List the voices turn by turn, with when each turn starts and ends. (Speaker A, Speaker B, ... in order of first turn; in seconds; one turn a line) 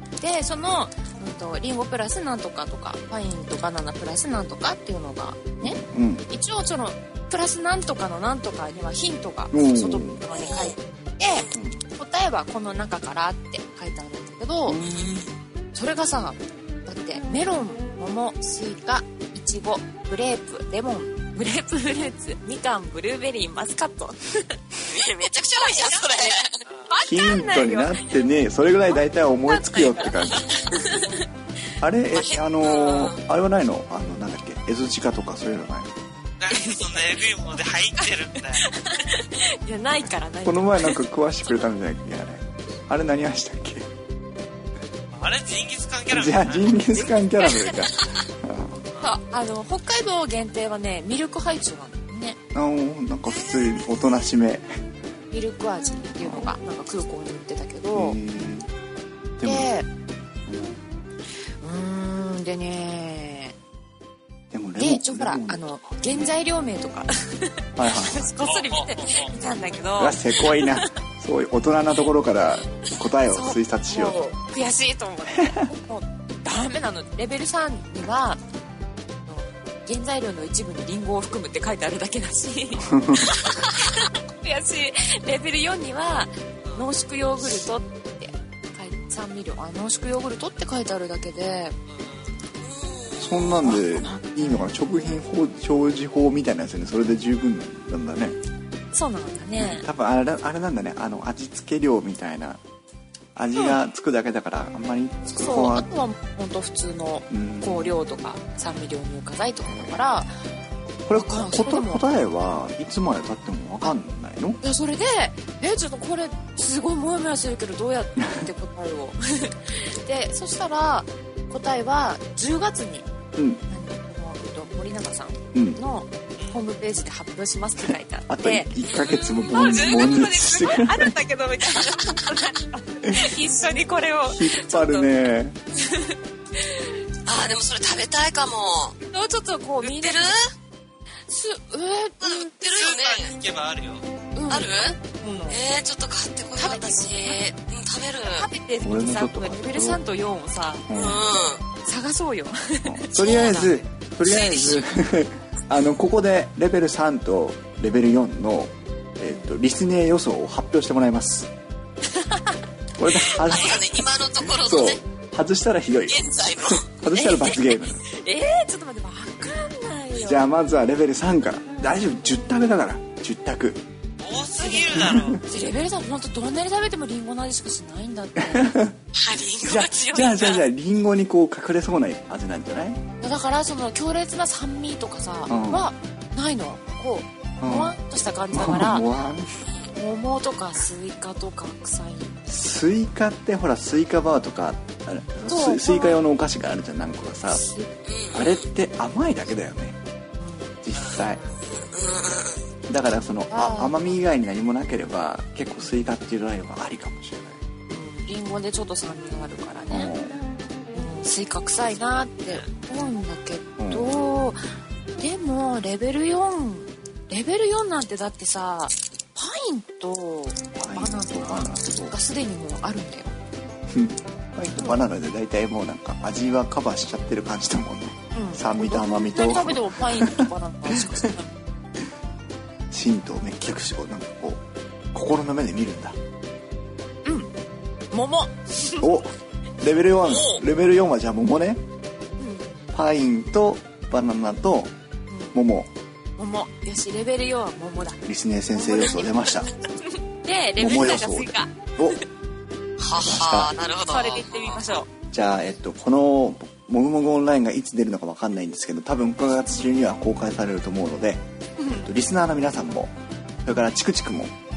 Speaker A: 0.2-14.8
Speaker B: 5.6-6.2
Speaker B: 9.5-10.2
Speaker C: 10.3-10.8
Speaker B: 11.5-11.8
Speaker B: 14.7-15.2
Speaker C: 14.9-15.3
Speaker A: 15.7-24.5
Speaker C: 24.9-26.6
Speaker A: 25.6-26.3
Speaker D: 26.6-26.9
Speaker A: 26.9-28.2
Speaker B: 27.0-30.5
Speaker C: 29.5-30.8
Speaker A: 30.7-31.3
Speaker B: 31.8-35.9
Speaker C: 32.1-33.2
Speaker D: 36.4-38.6
Speaker A: 36.5-37.2
Speaker A: 38.5-41.0
Speaker B: 40.4-43.9
Speaker D: 45.1-46.8
Speaker B: 46.1-48.8
Speaker A: 46.9-47.8
Speaker A: 49.0-52.4
Speaker B: 52.5-54.7
Speaker A: 55.3-58.6
Speaker B: 56.2-56.5
Speaker B: 57.9-58.7
Speaker B: 59.4-59.7
Speaker A: 59.4-59.9
Speaker B: 60.5-60.8
Speaker A: 61.6-63.5
Speaker B: 64.5-66.3
Speaker A: 64.8-71.0
Speaker B: 67.8-68.2
Speaker D: 68.3-69.3
Speaker B: 70.0-74.2
Speaker A: 73.3-78.4
Speaker B: 75.3-75.7
Speaker A: 79.2-91.8
Speaker B: 82.8-83.3
Speaker D: 91.9-92.3
Speaker C: 92.6-93.8
Speaker B: 93.2-98.4
Speaker A: 94.4-94.7
Speaker A: 98.9-99.9
Speaker B: 99.6-102.6
Speaker B: 103.3-105.9
Speaker A: 103.5-103.9
Speaker A: 105.3-110.3
Speaker B: 107.3-108.0
Speaker B: 109.6-110.0
Speaker B: 111.1-114.6
Speaker A: 111.1-112.0
Speaker A: 114.6-123.1
Speaker B: 118.2-118.5
Speaker B: 123.3-123.6
Speaker A: 123.7-128.7
Speaker B: 125.5-125.8
Speaker B: 127.8-131.2
Speaker C: 128.8-130.1
Speaker A: 129.4-135.1
Speaker C: 131.8-132.4
Speaker B: 133.0-133.4
Speaker B: 134.2-135.6
Speaker A: 135.8-137.0
Speaker C: 137.2-139.0
Speaker A: 139.0-140.3
Speaker C: 139.8-140.5
Speaker A: 141.3-142.5
Speaker C: 142.2-143.3
Speaker D: 142.6-144.0
Speaker A: 144.3-145.6
Speaker C: 144.5-148.5
Speaker A: 146.6-147.4
Speaker A: 148.4-150.8
Speaker B: 148.8-150.0
Speaker B: 150.9-151.3
Speaker C: 150.9-151.7
Speaker A: 151.8-153.8
Speaker B: 152.8-161.5
Speaker C: 153.2-153.6
Speaker C: 154.2-154.8
Speaker A: 159.2-159.5
Speaker A: 162.1-162.6
Speaker B: 163.0-168.0
Speaker C: 163.4-165.0
Speaker C: 166.1-166.9
Speaker A: 167.1-170.4
Speaker B: 170.1-173.8
Speaker D: 174.2-175.4
Speaker A: 174.6-178.7
Speaker B: 174.9-175.4
Speaker B: 178.4-178.9
Speaker C: 179.1-180.6
Speaker B: 179.6-183.0
Speaker A: 183.2-189.1
Speaker B: 185.5-185.9
Speaker B: 187.6-188.0
Speaker B: 188.5-189.6
Speaker A: 189.9-192.4
Speaker B: 192.5-197.6
Speaker A: 195.5-196.2
Speaker A: 197.5-197.9
Speaker C: 198.0-198.7
Speaker B: 198.3-200.0
Speaker A: 200.4-200.8
Speaker B: 200.8-201.4
Speaker C: 201.0-202.7
Speaker B: 202.9-207.6
Speaker A: 203.5-204.2
Speaker A: 205.8-206.1
Speaker A: 207.9-210.1
Speaker B: 209.9-210.4
Speaker A: 210.9-214.6
Speaker D: 211.8-212.7
Speaker B: 213.8-214.2
Speaker A: 215.2-223.3
Speaker B: 220.8-222.2
Speaker B: 223.9-231.3
Speaker A: 224.8-225.0
Speaker A: 228.3-231.5
Speaker B: 232.9-234.6
Speaker B: 235.1-236.2
Speaker A: 237.2-237.5
Speaker A: 238.1-239.1
Speaker B: 239.0-241.8
Speaker A: 242.4-242.8
Speaker B: 242.9-244.9
Speaker A: 245.3-245.6
Speaker B: 245.5-245.9
Speaker A: 246.4-248.2
Speaker B: 248.2-249.7
Speaker A: 248.7-252.2
Speaker B: 250.8-252.2
Speaker C: 253.0-255.0
Speaker B: 253.2-253.7
Speaker A: 254.0-255.1
Speaker B: 255.3-264.5
Speaker A: 261.8-262.1